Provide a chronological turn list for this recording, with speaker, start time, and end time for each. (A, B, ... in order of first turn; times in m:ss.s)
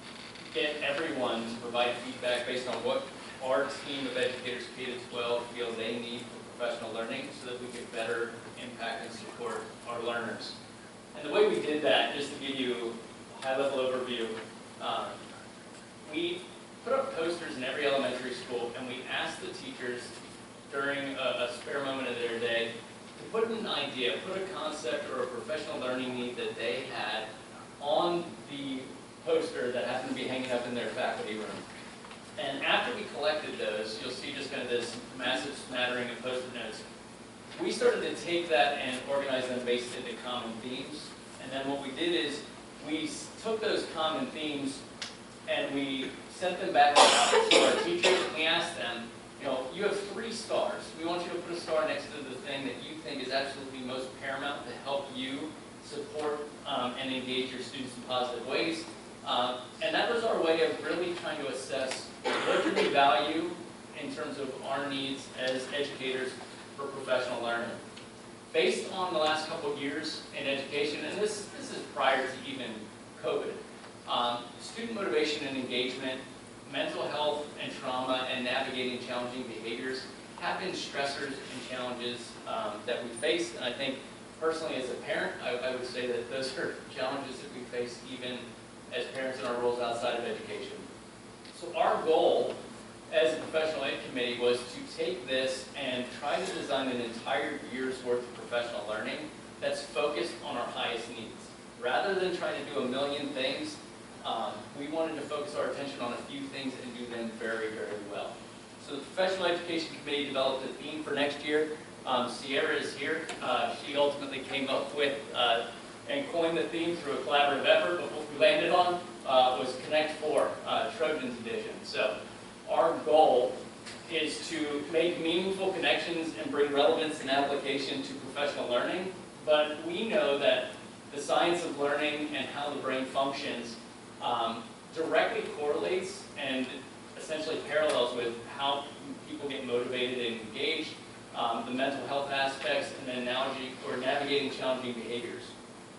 0:00.5-0:10.5 A
0:11.1-0:15.2 A
0:16.0-0:20.1 A
0:20.7-0:27.3 A
0:27.8-0:31.6 A
0:32.4-0:36.8 A
0:37.5-0:44.8 A
0:45.4-1:07.8 A
1:08.5-1:30.8 A
1:31.5-1:32.6 A
1:33.1-2:25.5 A